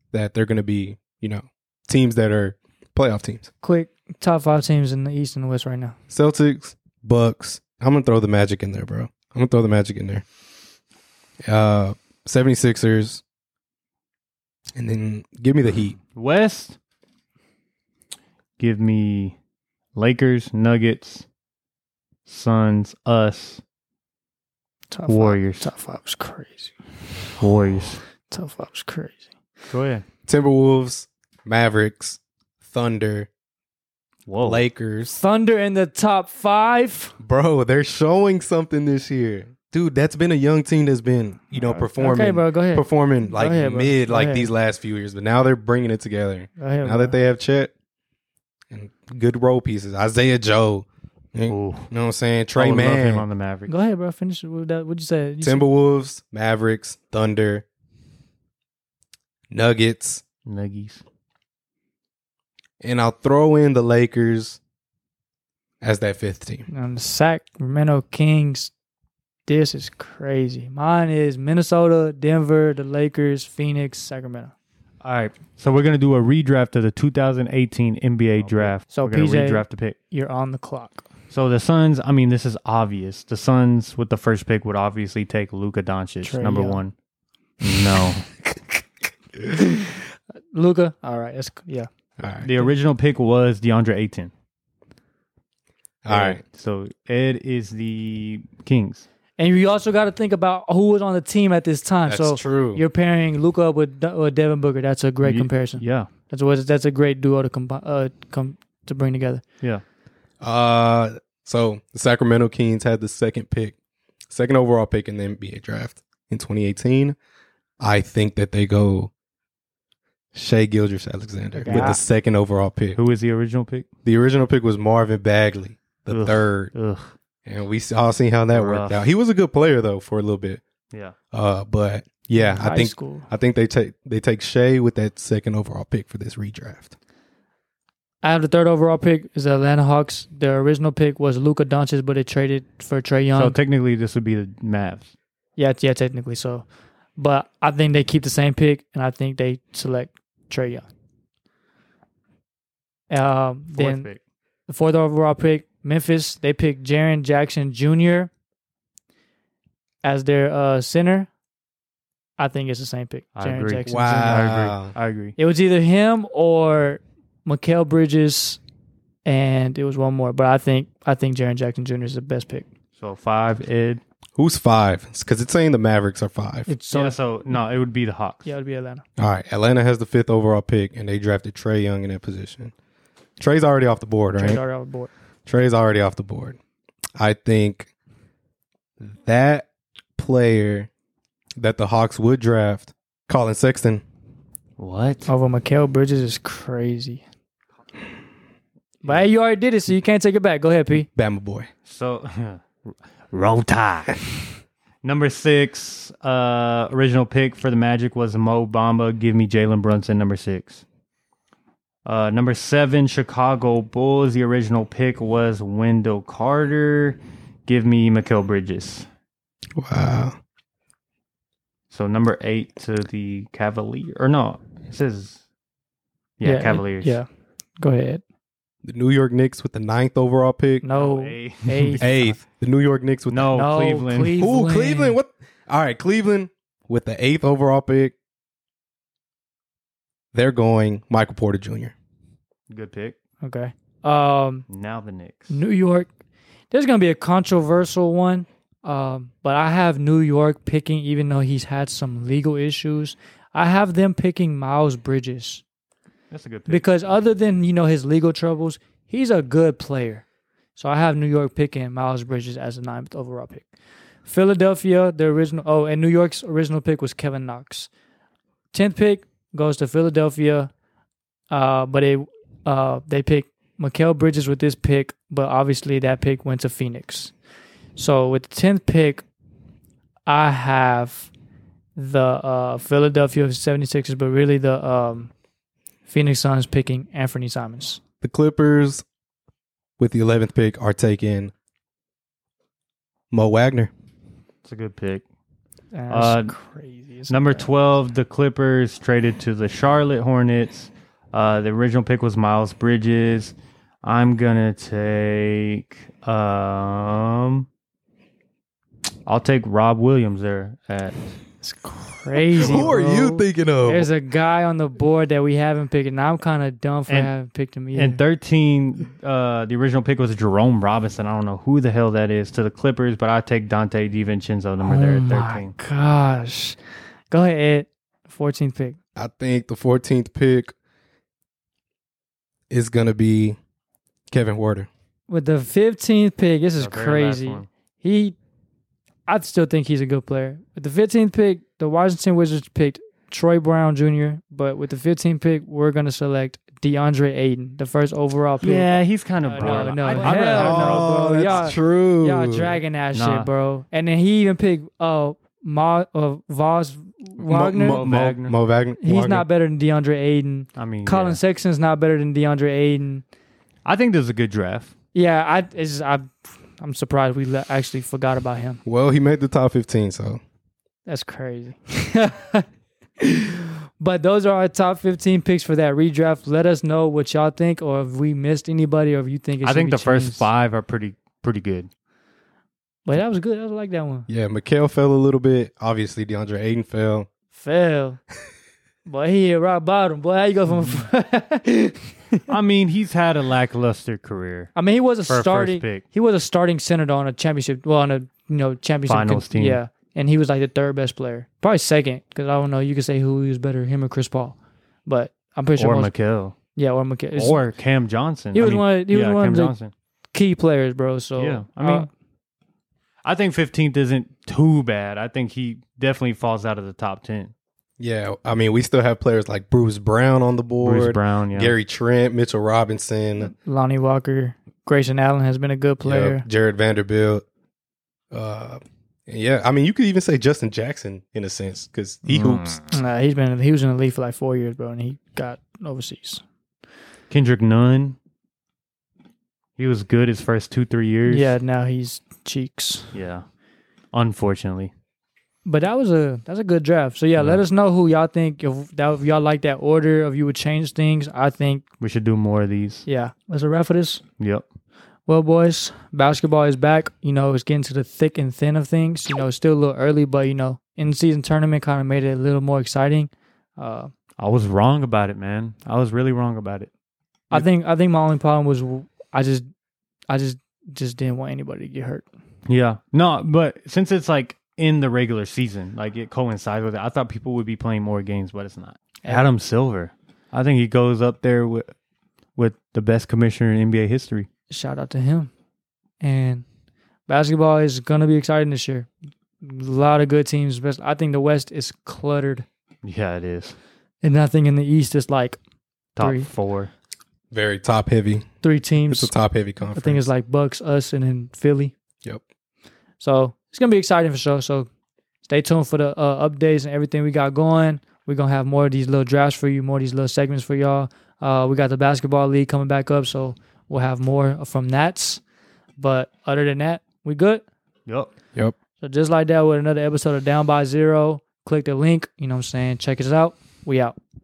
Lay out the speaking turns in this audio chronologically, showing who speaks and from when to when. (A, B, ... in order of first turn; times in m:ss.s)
0:00.1-0:03.5 A
0:03.6-0:06.0 B
0:06.1-0:10.2 A
0:11.5-0:13.2 A
0:14.8-0:16.0 A
0:16.2-0:16.8 C
0:18.6-0:19.4 C
0:20.0-0:21.2 C
0:22.3-0:23.6 C
0:24.9-0:26.8 B
0:25.1-0:25.7 C
0:27.4-0:28.0 C
0:28.3-0:29.2 B
0:29.7-0:30.0 C
0:30.3-0:33.3 A
0:34.3-0:34.7 C
0:34.4-0:35.2 A
0:35.1-0:37.2 B
0:37.2-0:47.7 A
0:41.7-0:44.5 B
0:46.6-0:47.2 B
0:48.7-0:53.3 A
0:51.5-0:51.9 C
0:52.6-0:53.7 C
0:53.7-0:55.7 B
0:55.4-0:57.6 A
0:59.5-1:00.2 A
1:00.4-1:01.0 C
1:02.8-1:04.6 A
1:05.8-1:06.7 A
1:06.7-1:08.7 B
1:09.5-1:14.5 B
1:15.0-1:20.0 C
1:18.6-1:21.1 B
1:21.3-1:26.9 C
1:26.2-1:26.8 B
1:27.6-1:28.3 C
1:29.4-1:31.9 B
1:32.2-1:32.5 A
1:32.4-1:34.3 C
1:36.0-1:36.4 A
1:36.1-1:39.1 C
1:39.4-1:49.4 B
1:42.1-1:42.8 A
1:45.2-1:46.1 C
1:50.4-1:53.8 A
1:54.3-1:57.2 A
1:57.8-1:59.1 A
2:00.3-2:03.0 A
2:01.6-2:02.0 B
2:01.7-2:02.0 C
2:03.0-2:03.9 C
2:04.0-2:06.7 A
2:06.1-2:07.1 C
2:07.5-2:10.6 A
2:08.5-2:09.1 C
2:11.3-2:16.9 A
2:12.4-2:13.3 B
2:18.2-2:23.6 B
2:23.3-2:25.1 C
2:25.6-2:30.9 B
2:33.1-2:34.1 B
2:33.7-2:34.2 C
2:34.7-2:38.3 B
2:40.0-2:41.3 B
2:42.4-2:44.4 B
2:43.4-2:45.4 C
2:43.8-2:44.9 A
2:45.4-2:48.6 B
2:49.2-2:52.7 B
2:53.0-2:54.0 C
2:54.4-2:56.7 A
2:56.7-2:57.5 B
2:56.9-2:58.5 C
2:58.4-2:59.0 B
2:59.2-3:02.7 A
3:03.4-3:04.6 A
3:04.3-3:05.1 B
3:05.5-3:06.6 A
3:07.2-3:07.9 A
3:09.0-3:10.9 A
3:11.6-3:14.0 A
3:14.8-3:15.3 C
3:15.3-3:17.2 B
3:19.0-3:21.1 B
3:21.0-3:21.7 A
3:21.9-3:24.3 C
3:25.0-3:30.8 C
3:32.0-3:39.1 C
3:39.8-3:40.4 A
3:41.9-3:45.4 C
3:46.4-3:47.2 C
3:46.4-3:47.3 B
3:47.8-3:48.2 B
3:48.8-3:50.9 A
3:50.8-3:52.4 B
3:51.0-3:52.1 C
3:52.0-3:53.6 A
3:53.3-3:54.4 C
3:53.5-3:55.2 B
3:54.3-3:58.1 A
4:00.3-4:01.9 A
4:02.7-4:03.2 C
4:03.4-4:04.7 B
4:04.7-4:05.6 C
4:05.5-4:06.1 B
4:06.7-4:15.6 B
4:16.3-4:16.9 C
4:16.7-4:23.7 B
4:24.3-4:27.9 B
4:28.7-4:30.7 B
4:31.5-4:37.3 B
4:38.0-4:39.2 B
4:40.3-4:41.3 B
4:42.0-4:45.3 B
4:46.1-4:48.0 B
4:48.2-4:49.0 A
4:50.0-4:51.5 A
4:53.3-4:53.9 A
4:54.6-4:55.2 C
4:55.9-4:57.7 B
4:56.1-4:56.5 C
4:57.3-5:07.7 C
5:09.3-5:11.2 C
5:11.6-5:18.2 B
5:12.6-5:14.1 A
5:12.6-5:12.9 C
5:17.9-5:25.8 C
5:24.8-5:26.8 B
5:27.3-5:29.0 B
5:29.2-5:30.7 A
5:32.7-5:33.6 A
5:34.3-5:34.9 A
5:35.3-5:38.4 B
5:36.8-5:37.7 C
5:39.3-5:58.0 B
5:48.6-5:51.7 C
5:50.5-5:52.8 A
5:53.1-5:53.5 C
5:57.4-5:59.4 A
5:57.8-5:58.6 C
5:59.0-6:03.2 B
6:00.8-6:01.4 C
6:03.8-6:04.9 C
6:05.1-6:08.8 B
6:08.8-6:10.4 A
6:11.1-6:12.6 B
6:13.2-6:20.5 B
6:19.6-6:21.9 C
6:23.1-6:24.3 B
6:24.3-6:27.3 A
6:27.5-6:28.2 B
6:29.1-6:32.6 B
6:32.5-6:36.0 C
6:34.8-6:46.1 B
6:39.1-6:39.8 C
6:45.8-6:46.6 C
6:46.8-6:47.6 B
6:47.3-6:49.9 C
6:48.5-6:49.8 B
6:50.3-6:52.1 B
6:51.4-6:52.1 C
6:53.2-6:57.5 C
6:58.0-7:03.5 A
7:00.8-7:01.8 C
7:03.4-7:06.4 B
7:06.0-7:07.4 A
7:08.3-7:12.8 A
7:12.3-7:12.8 C
7:12.9-7:16.4 B
7:17.3-7:18.2 C
7:19.8-7:21.5 C
7:21.3-7:23.1 B
7:23.1-7:23.4 C
7:24.1-7:24.9 C
7:25.6-7:31.8 B
7:32.0-7:33.1 C
7:33.1-7:34.2 B
7:34.4-7:34.6 C
7:35.3-7:44.1 B
7:44.4-7:46.9 C
7:47.5-7:49.7 B
7:50.3-7:52.2 B
7:52.7-8:01.9 C
8:02.6-8:04.5 C
8:04.7-8:05.5 B
8:06.2-8:06.6 B
8:07.3-8:09.1 B
8:09.6-8:12.7 B
8:13.0-8:13.8 C
8:14.2-8:15.6 B
8:16.2-8:16.9 C
8:16.2-8:16.5 B
8:17.5-8:18.5 A
8:18.6-8:19.3 B
8:19.1-8:20.3 A
8:19.9-8:21.9 B
8:23.2-8:24.9 B
8:25.4-8:35.4 B
8:36.0-8:37.6 B
8:38.1-8:38.3 C
8:39.0-8:44.2 B